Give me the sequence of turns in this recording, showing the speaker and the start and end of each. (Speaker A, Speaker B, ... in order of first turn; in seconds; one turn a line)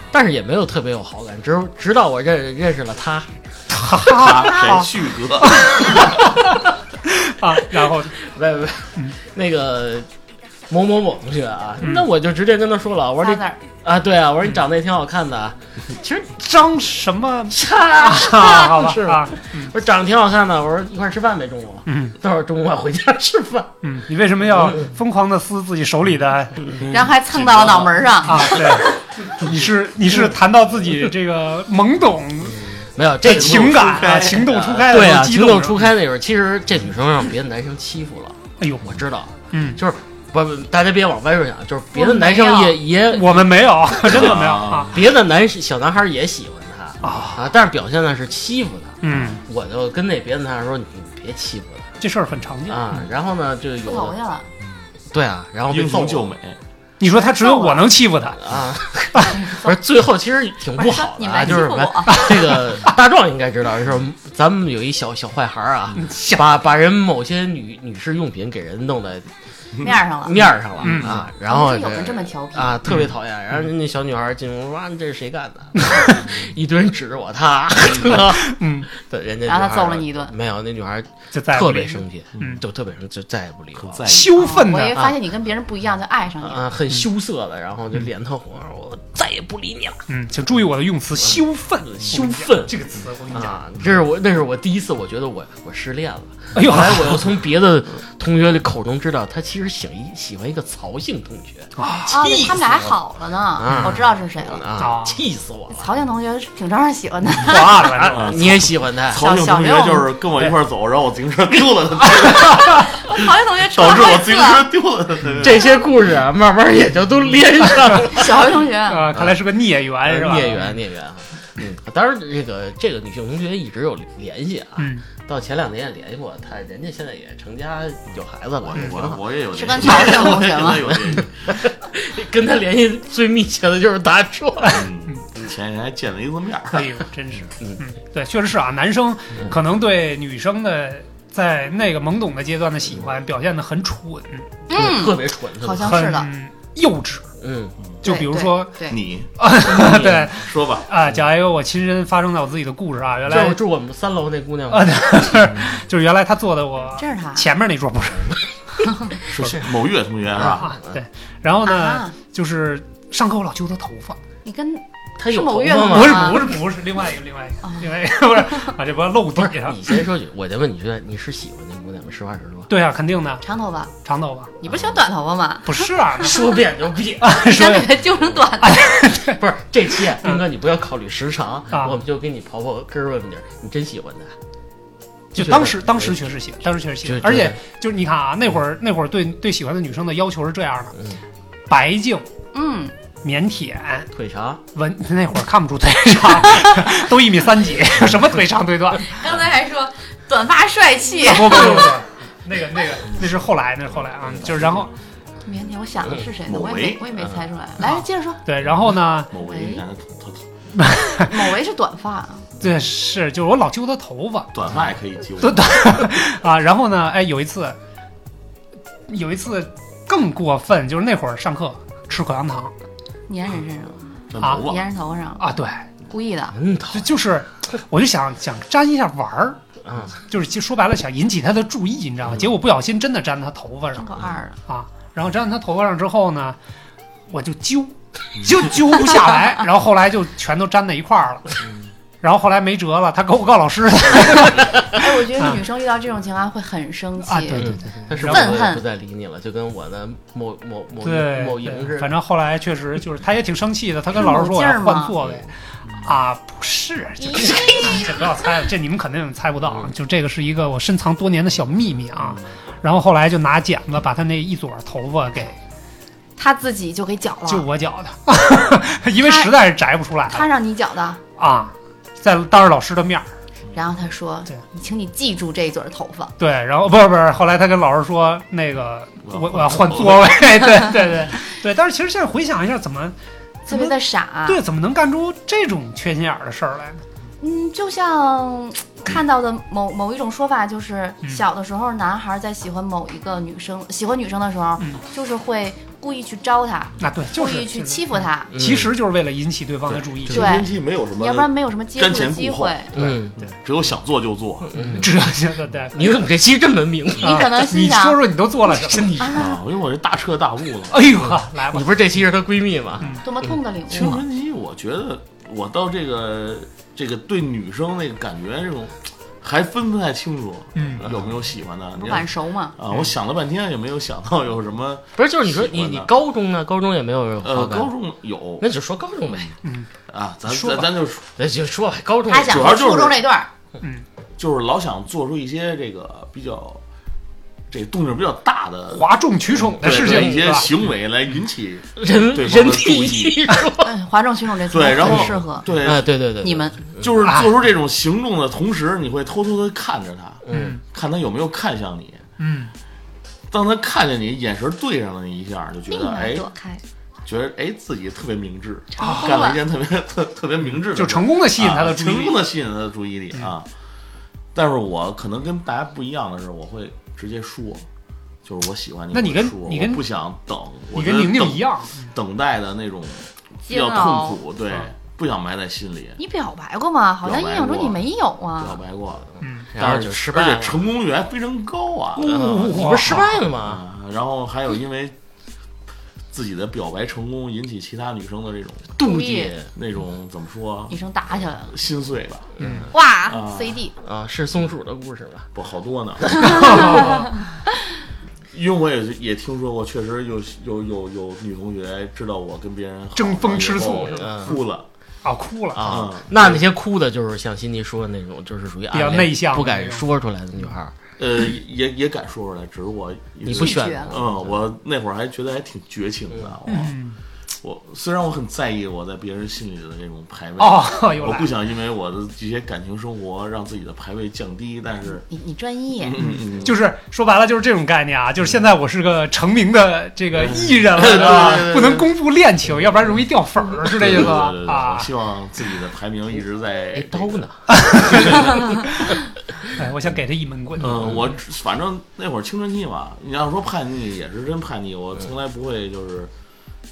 Speaker A: 0.1-3.3
Speaker B: 3.7-4.9
Speaker C: 4.1-5.8
Speaker B: 5.5-6.4
Speaker B: 7.1-8.1
Speaker A: 7.8-10.1
Speaker A: 10.7-16.4
Speaker B: 11.8-12.1
Speaker D: 13.2-13.6
Speaker B: 16.4-19.7
Speaker A: 17.5-23.8
Speaker B: 21.9-22.1
Speaker B: 23.8-26.8
Speaker A: 24.5-24.9
Speaker D: 26.9-28.6
Speaker C: 27.4-27.9
Speaker B: 28.3-32.7
Speaker A: 32.4-33.9
Speaker B: 33.2-35.9
Speaker C: 33.2-34.9
Speaker A: 34.8-51.9
Speaker B: 38.6-39.0
Speaker B: 39.5-39.8
Speaker D: 41.9-42.8
Speaker B: 43.1-45.0
Speaker C: 44.0-45.0
Speaker B: 47.0-47.5
Speaker B: 49.0-49.4
Speaker B: 52.0-53.0
Speaker A: 52.7-54.2
Speaker D: 53.8-54.5
Speaker A: 55.1-56.3
Speaker C: 55.7-56.6
Speaker B: 57.0-58.4
Speaker D: 57.0-57.9
Speaker A: 58.4-69.3
Speaker D: 59.4-59.8
Speaker D: 60.8-62.3
Speaker B: 62.1-62.8
Speaker B: 66.0-66.5
Speaker D: 69.8-70.5
Speaker A: 69.8-84.1
Speaker B: 70.8-71.2
Speaker D: 71.4-72.8
Speaker B: 75.9-76.3
Speaker B: 78.2-78.9
Speaker D: 79.5-80.3
Speaker B: 81.3-82.6
Speaker C: 83.8-84.6
Speaker B: 84.1-85.0
Speaker D: 84.4-86.6
Speaker A: 86.4-90.0
Speaker B: 90.1-93.6
Speaker A: 91.2-92.8
Speaker A: 93.3-101.7
Speaker B: 96.5-97.3
Speaker B: 101.8-102.6
Speaker D: 102.1-104.6
Speaker A: 103.6-105.9
Speaker B: 103.7-104.0
Speaker B: 104.8-105.2
Speaker D: 105.7-108.1
Speaker B: 107.4-108.4
Speaker A: 108.0-109.2
Speaker C: 108.1-113.2
Speaker D: 109.1-110.1
Speaker D: 112.8-114.7
Speaker C: 113.7-115.7
Speaker A: 115.4-118.5
Speaker D: 118.1-119.1
Speaker B: 118.9-120.7
Speaker A: 119.1-119.4
Speaker A: 120.0-129.2
Speaker B: 124.8-125.0
Speaker C: 128.6-131.5
Speaker D: 129.6-130.9
Speaker A: 129.8-134.8
Speaker C: 134.7-136.9
Speaker B: 134.8-135.1
Speaker B: 136.7-144.6
Speaker D: 144.7-146.3
Speaker A: 144.7-146.0
Speaker B: 145.8-147.3
Speaker A: 147.4-147.8
Speaker B: 148.0-148.7
Speaker D: 148.0-149.0
Speaker C: 148.9-149.3
Speaker B: 149.4-153.6
Speaker A: 149.7-150.3
Speaker C: 149.8-150.9
Speaker A: 153.3-155.4
Speaker B: 154.7-158.4
Speaker D: 157.0-157.5
Speaker C: 159.3-160.7
Speaker A: 160.4-161.0
Speaker B: 160.5-164.2
Speaker D: 161.7-162.1
Speaker D: 164.4-166.6
Speaker A: 165.2-166.6
Speaker B: 165.8-169.9
Speaker D: 167.6-167.9
Speaker A: 169.3-172.7
Speaker B: 172.7-173.4
Speaker D: 173.4-173.9
Speaker B: 174.0-174.5
Speaker D: 174.6-175.9
Speaker B: 175.7-176.5
Speaker A: 176.2-177.5
Speaker B: 177.2-178.0
Speaker D: 177.4-179.0
Speaker B: 178.6-179.4
Speaker A: 179.1-184.3
Speaker B: 180.1-180.4
Speaker A: 185.3-186.2
Speaker B: 185.3-191.0
Speaker A: 187.0-187.6
Speaker B: 191.7-192.3
Speaker D: 192.5-192.9
Speaker B: 193.2-194.1
Speaker A: 194.1-194.6
Speaker B: 194.7-199.2
Speaker D: 199.1-201.9
Speaker B: 201.2-204.9
Speaker D: 205.4-208.4
Speaker C: 206.5-207.1
Speaker B: 207.8-209.3
Speaker C: 209.3-210.4
Speaker D: 209.4-209.8
Speaker B: 210.8-211.3
Speaker D: 211.2-212.5
Speaker B: 212.6-214.5
Speaker C: 214.5-215.7
Speaker B: 215.4-217.8
Speaker B: 219.1-222.7
Speaker D: 223.3-225.5
Speaker C: 224.3-224.8
Speaker B: 224.4-224.7
Speaker B: 225.4-225.9
Speaker D: 226.1-226.6
Speaker A: 226.5-227.1
Speaker B: 226.9-229.6
Speaker A: 229.8-230.1
Speaker B: 230.3-234.1
Speaker D: 233.9-234.6
Speaker B: 234.7-236.6
Speaker B: 237.3-241.6
Speaker B: 242.2-245.6
Speaker D: 244.9-248.8
Speaker B: 247.3-248.5
Speaker A: 247.6-252.1
Speaker B: 251.0-255.5
Speaker D: 254.2-255.2
Speaker B: 256.0-265.6
Speaker D: 257.2-258.2
Speaker A: 257.4-258.0
Speaker D: 266.4-267.7
Speaker B: 267.5-270.5
Speaker D: 269.2-269.5
Speaker D: 270.3-271.2
Speaker B: 271.4-273.3
Speaker D: 273.7-276.3
Speaker B: 276.4-283.1
Speaker C: 279.2-280.4
Speaker B: 283.7-287.0
Speaker D: 283.7-284.6
Speaker D: 287.4-298.5
Speaker B: 297.0-300.5
Speaker A: 298.5-298.9
Speaker C: 299.9-304.8
Speaker D: 300.3-302.9
Speaker A: 302.9-303.4
Speaker A: 304.7-305.3
Speaker B: 304.8-306.2
Speaker A: 305.9-307.5
Speaker D: 307.2-308.2
Speaker B: 307.2-309.2
Speaker A: 308.7-309.5
Speaker D: 309.2-309.6
Speaker C: 309.4-311.1
Speaker B: 310.9-311.9
Speaker A: 311.7-313.2
Speaker D: 313.2-314.2
Speaker C: 313.9-326.1
Speaker B: 320.8-321.1
Speaker D: 322.0-322.8
Speaker A: 325.2-327.9
Speaker C: 327.4-328.7
Speaker A: 328.6-329.6
Speaker B: 329.6-329.9
Speaker C: 330.1-331.2
Speaker B: 330.5-330.9
Speaker A: 331.4-332.8
Speaker D: 332.3-333.5
Speaker C: 332.5-333.2
Speaker C: 334.4-336.8
Speaker C: 337.7-339.2
Speaker B: 338.9-340.7
Speaker A: 339.6-340.7
Speaker C: 339.8-343.5
Speaker A: 342.0-343.9
Speaker D: 343.8-345.7
Speaker C: 344.7-346.1
Speaker A: 345.0-347.1
Speaker D: 346.4-346.8
Speaker C: 347.0-352.2
Speaker B: 347.2-347.5
Speaker A: 350.5-350.8
Speaker B: 350.5-350.8
Speaker B: 352.4-352.7
Speaker C: 353.5-356.4
Speaker D: 355.9-356.8
Speaker C: 357.3-363.7
Speaker D: 359.0-359.6
Speaker B: 359.0-359.3
Speaker B: 361.0-362.4
Speaker C: 364.5-367.9
Speaker C: 368.4-376.2
Speaker B: 369.1-370.0
Speaker B: 370.9-372.1
Speaker D: 373.6-374.4
Speaker D: 376.2-378.8
Speaker C: 377.2-378.0
Speaker C: 378.6-382.6
Speaker B: 379.4-379.7
Speaker A: 379.6-380.9
Speaker B: 382.2-383.4
Speaker A: 382.2-383.8
Speaker C: 383.5-385.1
Speaker C: 386.3-389.0
Speaker A: 389.0-389.7
Speaker D: 389.0-389.6
Speaker C: 389.8-391.0
Speaker D: 390.9-391.7
Speaker C: 391.7-393.8
Speaker A: 392.6-392.9
Speaker D: 392.9-393.9
Speaker A: 394.0-395.5
Speaker C: 395.6-397.1
Speaker A: 396.3-397.0
Speaker B: 396.5-397.3
Speaker D: 396.6-397.1
Speaker C: 398.5-404.9
Speaker B: 403.2-404.6
Speaker A: 404.1-404.6
Speaker B: 405.2-405.9
Speaker A: 405.7-411.0
Speaker C: 405.9-406.6
Speaker B: 408.9-410.1
Speaker C: 411.2-417.0
Speaker A: 413.4-414.6
Speaker D: 413.5-414.1
Speaker B: 416.7-417.2
Speaker C: 417.6-425.2
Speaker B: 420.6-421.5
Speaker D: 425.3-426.2
Speaker C: 426.0-426.8
Speaker B: 426.6-435.1
Speaker C: 430.4-432.1
Speaker C: 433.8-438.7
Speaker A: 436.9-438.9
Speaker B: 437.7-439.2
Speaker B: 439.8-441.1
Speaker C: 440.8-446.3
Speaker A: 440.9-441.2